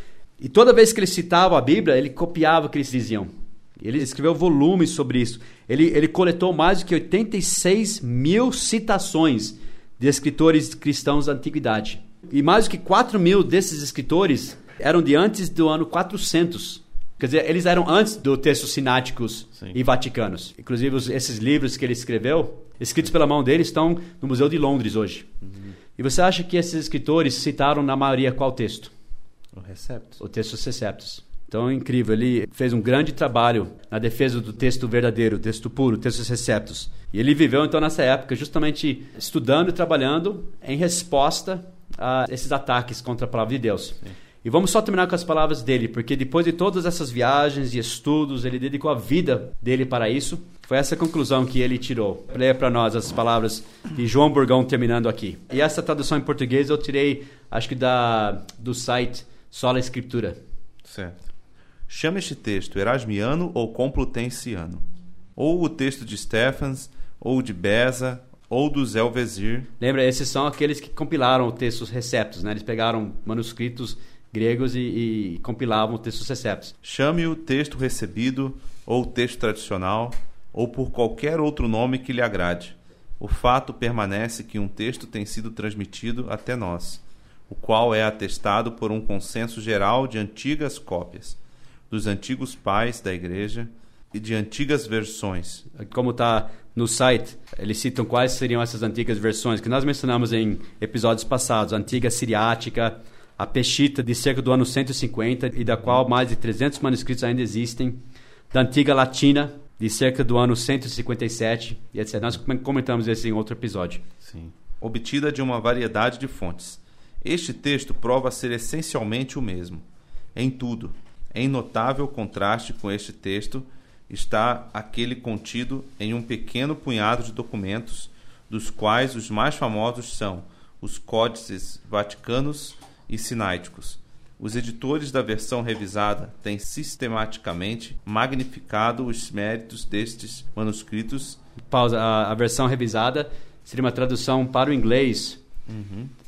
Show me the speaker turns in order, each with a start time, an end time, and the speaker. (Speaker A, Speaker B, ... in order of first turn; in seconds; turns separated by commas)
Speaker A: 0.4-25.3, Speaker B: 25.4-25.7, Speaker A: 26.0-28.9, Speaker B: 29.5-30.2, Speaker A: 30.2-60.4, Speaker B: 60.8-61.2, Speaker B: 61.9-64.8, Speaker B: 65.4-69.7, Speaker A: 69.8-76.8, Speaker B: 76.8-91.4, Speaker B: 91.9-95.7, Speaker A: 95.7-108.0, Speaker A: 108.5-114.0, Speaker B: 114.2-141.4, Speaker A: 141.7-145.4, Speaker B: 145.7-146.1